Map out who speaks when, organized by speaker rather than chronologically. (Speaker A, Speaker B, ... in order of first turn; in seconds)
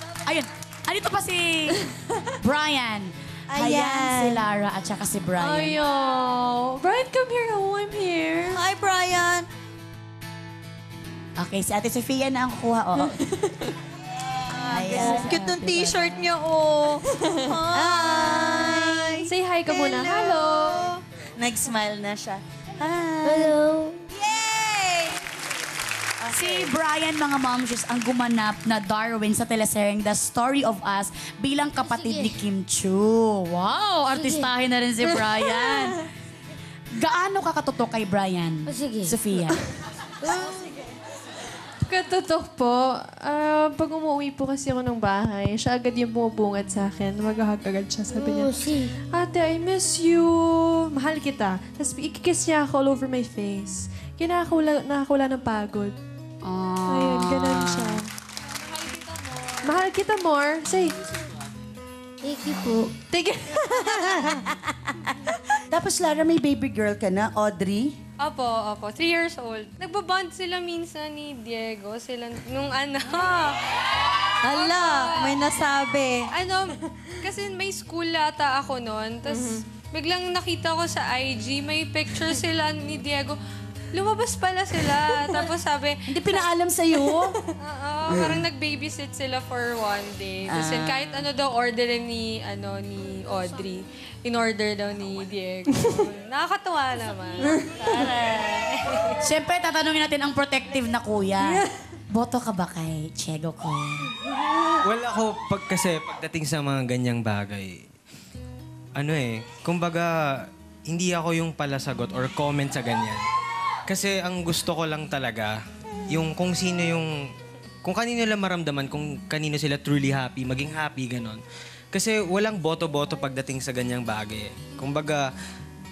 Speaker A: 0.2-5.8, 11.4-13.2, 14.6-16.2, 26.3-36.1, 37.0-39.6, 56.4-58.0, 99.2-104.1
Speaker B: 3.5-4.5, 8.6-9.5, 14.6-23.6, 24.2-25.2, 26.2-26.7, 63.8-65.1, 65.7-67.9, 74.4-76.3, 86.1-87.3, 88.1-88.4, 90.5-90.9
Speaker C: 5.4-8.6, 19.2-20.9, 41.9-56.0, 56.9-58.1, 59.6-61.0, 63.1-63.8
Speaker D: 23.2-24.1, 31.8-32.4, 34.1-34.5, 38.7-39.2, 40.2-40.5, 48.1-48.9, 62.2-63.0
Speaker E: 58.5-59.9, 68.2-73.6, 74.4-75.5, 76.3-83.4, 83.9-86.5, 87.6-99.2
Speaker F: 104.8-107.8, 109.0-113.2, 113.9-115.6, 116.1-117.2, 117.8-125.3